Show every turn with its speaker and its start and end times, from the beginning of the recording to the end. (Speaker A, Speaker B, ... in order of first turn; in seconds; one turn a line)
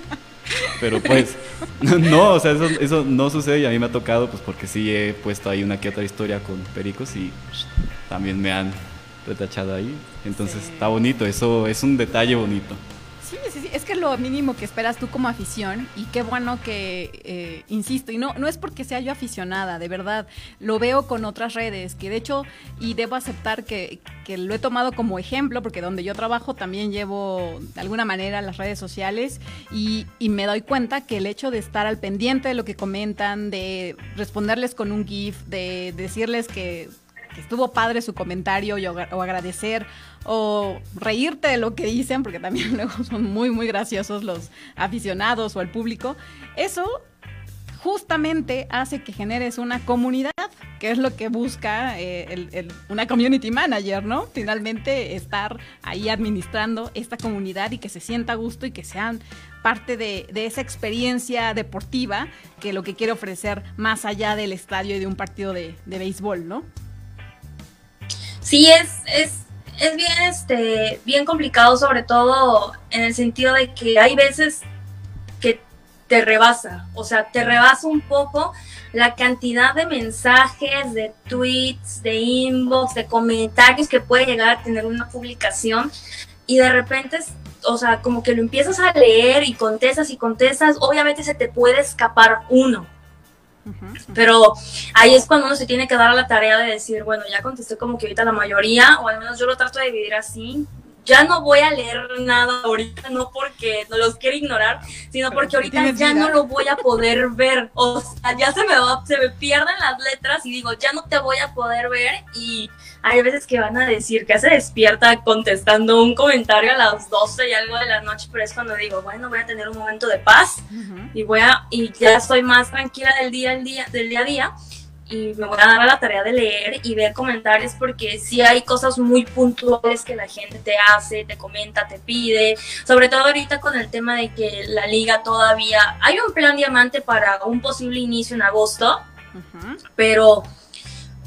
Speaker A: 0.7-12.8
Speaker B: 10.4-10.9
Speaker B: 13.2-47.0
Speaker B: 47.8-66.7
Speaker C: 68.4-74.7
Speaker C: 75.4-85.9
Speaker C: 86.5-92.9
Speaker B: 93.7-94.2
Speaker C: 94.1-124.5
Speaker B: 105.3-106.4
Speaker B: 120.7-121.1
Speaker C: 125.1-139.0
Speaker B: 139.3-139.8
Speaker C: 140.0-140.5